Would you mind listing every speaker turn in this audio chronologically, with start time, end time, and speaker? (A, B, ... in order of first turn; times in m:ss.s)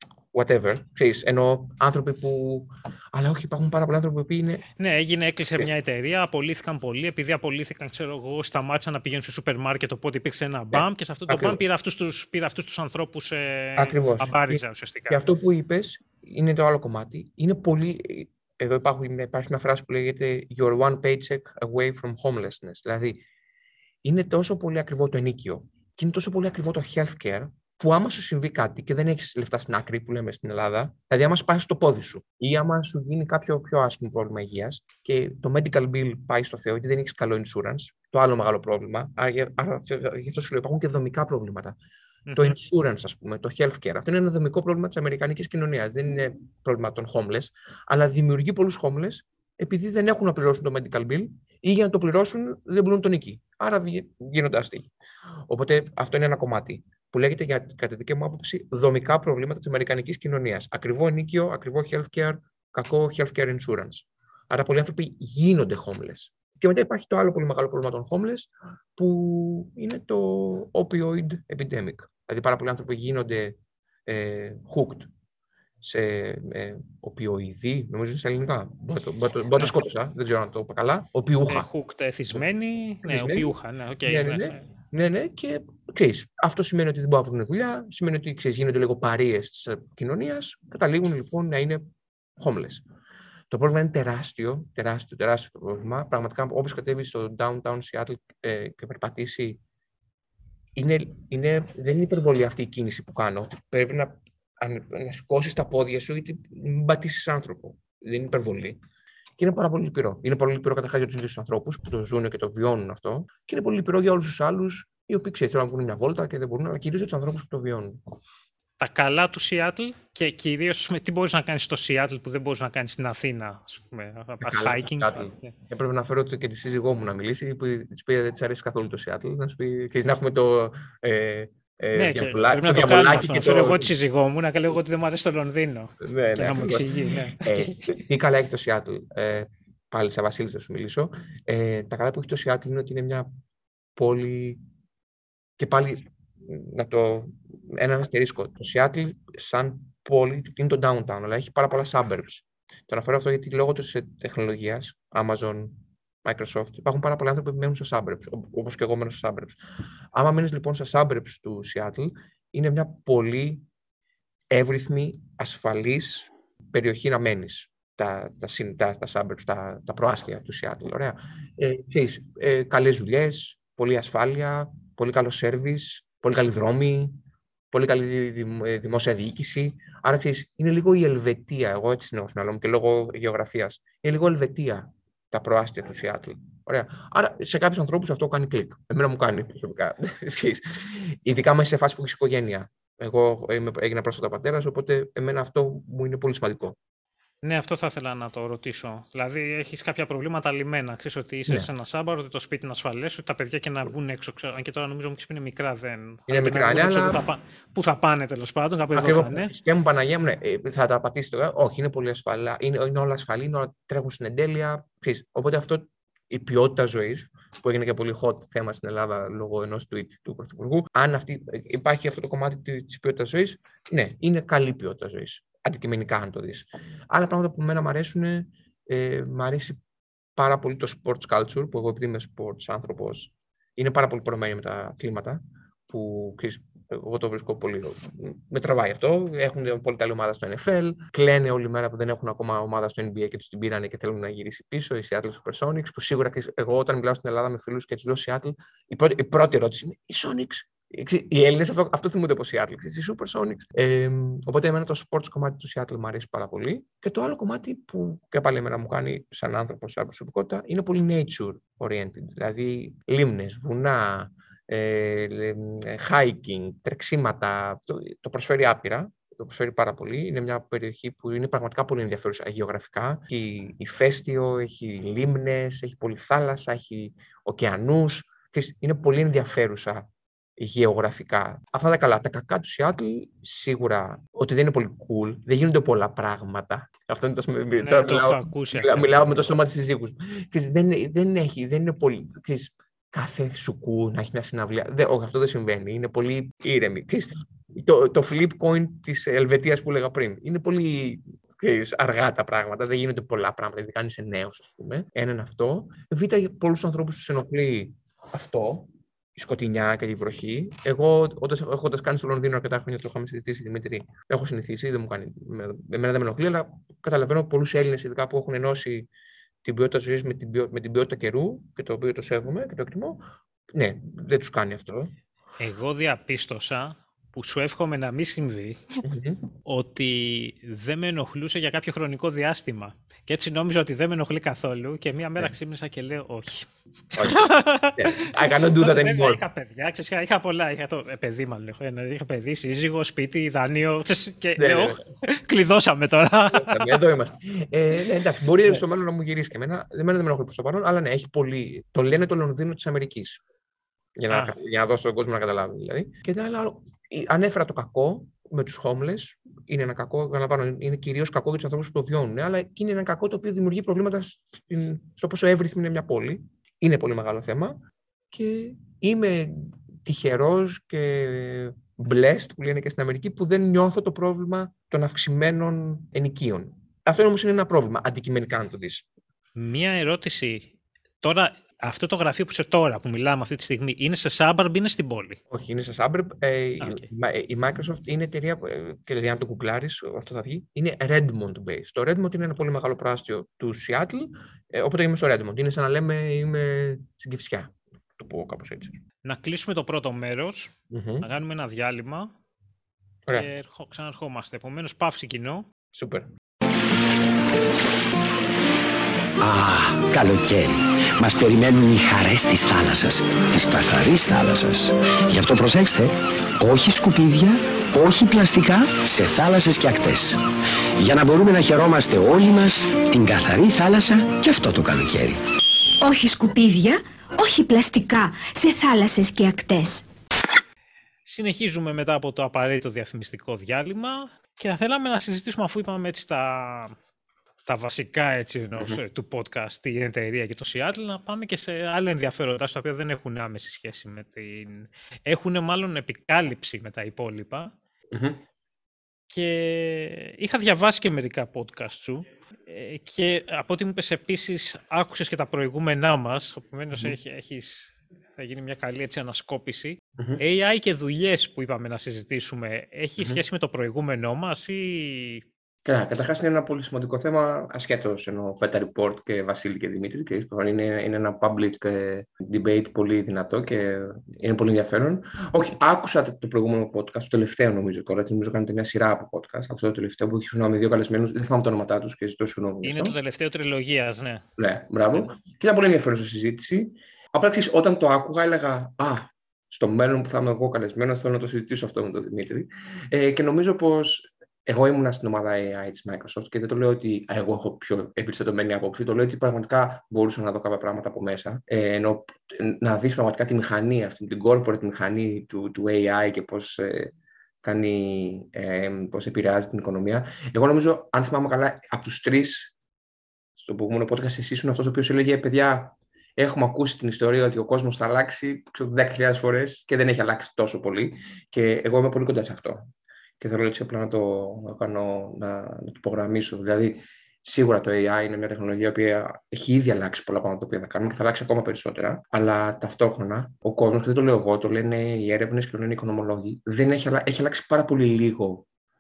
0:00.3-0:04.6 A
0:04.8-0:15.2 B
0:10.7-0:11.6 A
0:13.8-0:23.2 A
0:24.0-0:41.8 A
0:42.3-0:42.6 B
0:42.4-0:54.9 A
0:55.5-1:15.1 A
1:15.8-1:21.7 A
1:21.5-1:24.6 B
1:23.0-1:31.8 A
1:32.4-1:32.8 A
1:33.5-1:39.6 A
1:40.7-1:48.8 A
1:49.4-1:58.0 A
1:58.8-2:05.5 B
2:04.4-2:13.9 A
2:11.9-2:17.9 B
2:16.0-2:23.3 A
2:24.0-2:24.6 A
2:25.6-2:39.6 A
2:40.1-2:43.6 A
2:44.5-2:57.2 A
2:57.7-3:16.8 A
3:17.4-3:29.5 B
3:26.3-3:27.2 A
3:28.9-3:49.8 A
3:50.4-5:19.1 A
4:47.8-4:49.5 B
5:19.6-5:25.1 A
5:25.6-5:29.0 B
5:29.0-5:29.4 A
5:29.6-5:47.0 B
5:37.2-5:37.4 A
5:38.0-5:39.4 A
5:44.6-5:45.0 A
5:46.5-5:53.4 A
5:54.2-6:07.8 A
6:08.3-6:19.0 A
6:19.6-6:25.4 B
6:25.5-6:39.0 A
6:26.8-6:27.1 B
6:39.2-6:42.3 B
6:40.9-6:41.3 A
6:43.3-6:45.7 B
6:45.9-6:46.3 A
6:49.4-7:00.4 C
7:01.0-7:05.4 C
7:06.0-7:10.0 D
7:11.3-7:17.0 B
7:17.6-7:27.7 B
7:28.1-7:28.4 A
7:29.3-7:45.4 B
7:45.8-8:03.2 A
8:02.8-8:04.5 B
8:04.6-8:32.7 A
8:33.6-8:42.9 A
8:43.4-8:58.6 A